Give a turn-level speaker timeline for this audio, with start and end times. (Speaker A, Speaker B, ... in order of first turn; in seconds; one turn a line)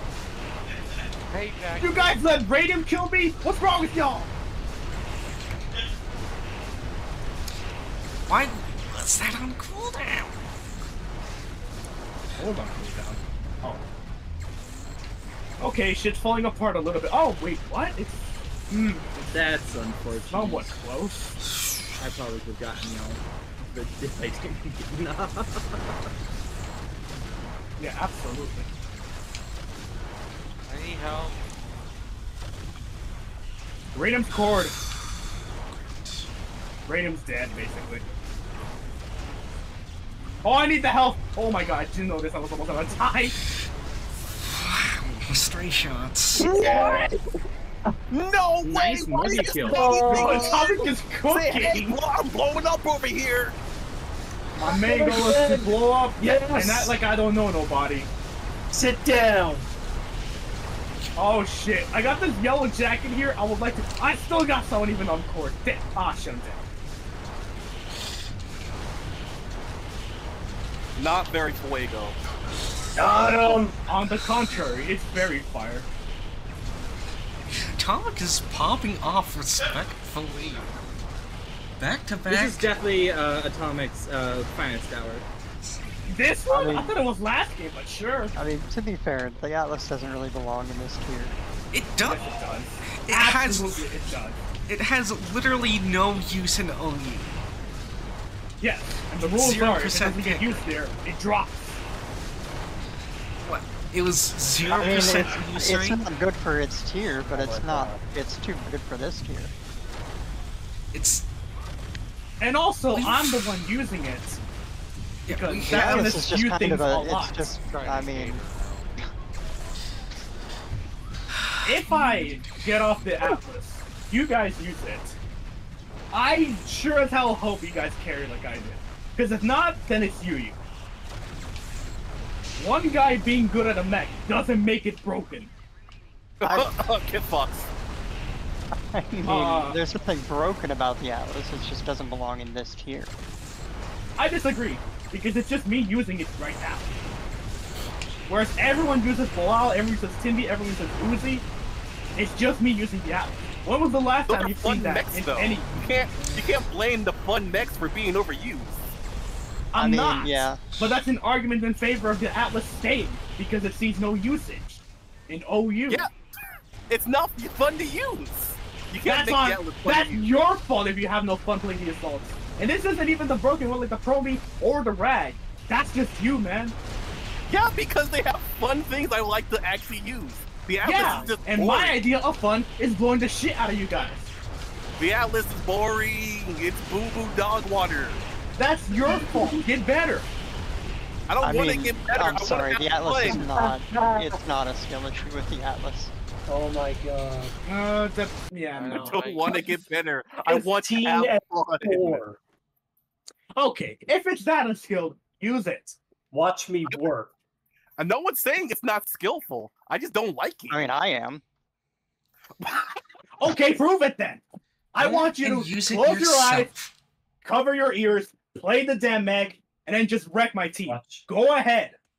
Speaker A: 1.3-2.1
Speaker B: 1.8-4.3
Speaker C: 8.3-10.4
Speaker B: 12.3-13.8
Speaker B: 15.6-19.1
Speaker D: 19.1-20.7
Speaker B: 20.3-21.2
Speaker D: 21.9-25.9
Speaker B: 27.8-28.7
Speaker A: 30.7-31.4
Speaker B: 33.9-34.8
Speaker B: 36.9-38.0
Speaker B: 40.4-43.4
Speaker C: 44.4-46.5
Speaker E: 46.4-47.1
Speaker F: 46.4-47.1
Speaker E: 48.1-53.5
Speaker D: 48.6-50.4
Speaker F: 49.6-50.7
Speaker B: 50.5-52.0
Speaker B: 54.5-58.1
Speaker F: 54.6-56.9
Speaker F: 58.7-59.7
Speaker B: 61.1-66.6
Speaker E: 71.0-72.2
Speaker F: 72.9-73.8
Speaker B: 73.9-75.9
Speaker C: 77.5-80.1
Speaker D: 80.1-80.6
Speaker C: 81.8-82.7
Speaker D: 82.2-85.2
Speaker B: 86.0-88.3
Speaker G: 86.5-86.9
Speaker G: 88.3-91.3
Speaker C: 91.7-94.0
Speaker B: 92.0-94.5
Speaker C: 94.7-97.4
Speaker B: 98.6-101.7
Speaker C: 99.2-100.7
Speaker C: 103.4-106.0
Speaker G: 104.7-109.5
Speaker F: 107.3-108.0
Speaker C: 110.9-111.2
Speaker B: 112.4-114.4
Speaker C: 112.9-113.5
Speaker C: 115.3-116.2
Speaker B: 115.3-117.5
Speaker G: 115.6-118.5
Speaker D: 117.8-118.4
Speaker C: 121.5-122.6
Speaker B: 121.6-125.2
Speaker B: 126.1-130.6
Speaker B: 132.6-135.5
Speaker E: 136.4-137.7
Speaker G: 138.9-143.1
Speaker B: 139.2-139.8
Speaker B: 144.2-146.9
Speaker B: 148.2-151.5
Speaker B: 152.1-156.2
Speaker E: 154.3-158.8
Speaker B: 159.7-166.0
Speaker G: 159.8-160.6
Speaker E: 166.9-170.3
Speaker B: 169.0-176.8
Speaker E: 177.5-182.0
Speaker B: 180.8-184.3
Speaker E: 185.0-188.2
Speaker B: 188.5-190.3
Speaker F: 189.1-189.6
Speaker E: 191.3-193.4
Speaker G: 191.4-196.1
Speaker F: 193.2-194.4
Speaker F: 196.5-197.5
Speaker B: 197.6-199.2
Speaker A: 198.7-199.8
Speaker E: 198.9-202.2
Speaker F: 199.4-199.7
Speaker F: 200.4-202.4
Speaker B: 203.5-206.0
Speaker F: 206.3-207.3
Speaker E: 208.0-210.8
Speaker G: 210.7-211.4
Speaker B: 213.4-216.7
Speaker C: 215.0-216.9
Speaker B: 217.4-222.0
Speaker F: 220.8-221.3